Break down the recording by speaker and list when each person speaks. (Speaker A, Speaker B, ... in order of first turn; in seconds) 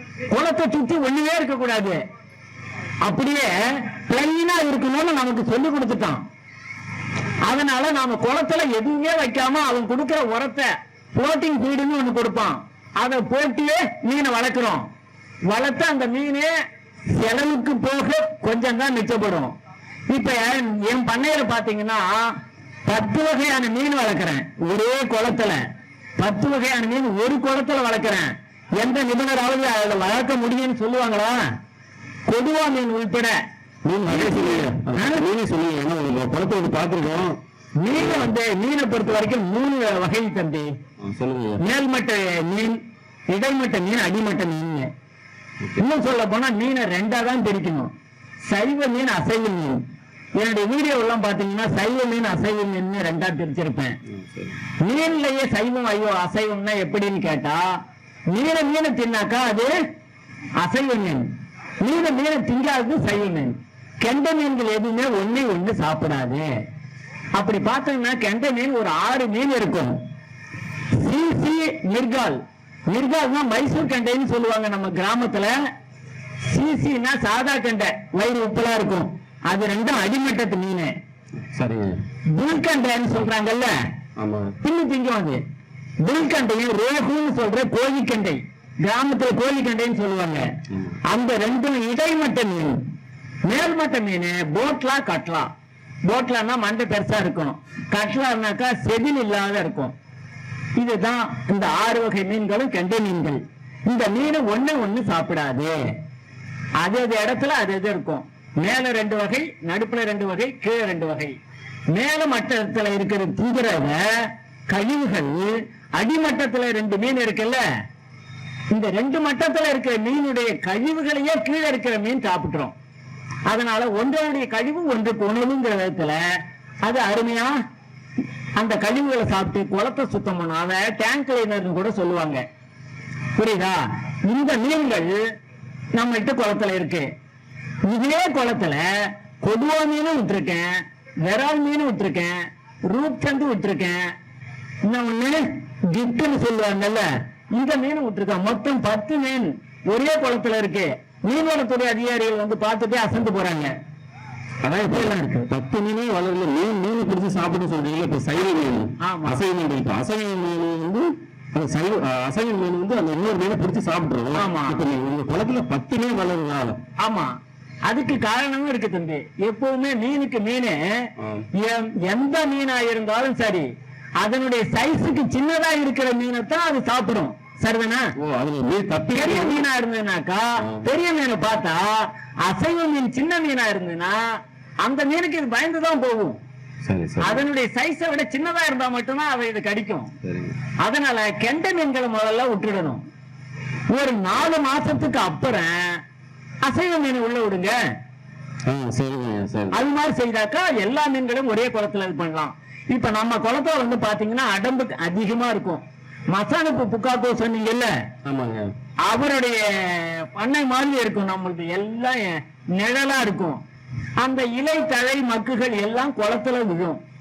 Speaker A: 0.3-2.0, 3.0-6.2, 7.5-14.8, 15.5-16.5, 17.1-19.5, 20.1-22.2, 22.9-25.6, 26.2-31.4, 32.3-33.3, 34.1-35.2, 37.8-40.7, 41.6-42.8, 43.3-44.9, 45.8-47.9, 48.5-49.8, 50.4-54.0, 54.8-57.6, 58.3-59.7, 60.6-61.2, 61.8-66.4, 67.3-70.0, 71.0-75.5, 76.5-80.9, 82.4-83.7, 84.6-85.4, 86.0-90.5, 91.1-92.8, 93.5-95.5, 96.1-99.9, 100.8-105.8, 106.8-111.3, 111.9-117.6, 118.7-122.7, 123.5-126.2, 126.8-127.5, 128.6-132.4, 133.3-135.2, 135.9-137.1, 137.8-138.8, 139.4-140.7, 141.2-142.4, 142.9-144.0, 144.8-153.7, 154.8-155.5, 159.0-159.4, 164.3-164.8, 167.0-167.3, 167.9-170.8, 171.5-173.7, 174.2-178.1, 179.1-181.8, 182.4-184.2, 184.8-186.4, 187.2-190.1, 190.8-193.0, 193.9-196.0, 196.6-197.8, 199.7-207.9, 209.1-213.6, 214.2-217.0
Speaker B: 33.9-37.4, 37.9-38.3, 41.0-41.6, 54.1-54.5, 81.5-82.0, 84.2-84.5, 90.7-91.0, 154.6-166.8, 171.2-171.5, 178.2-179.6, 186.8-187.4, 190.2-190.5, 198.7-199.8, 208.2-208.7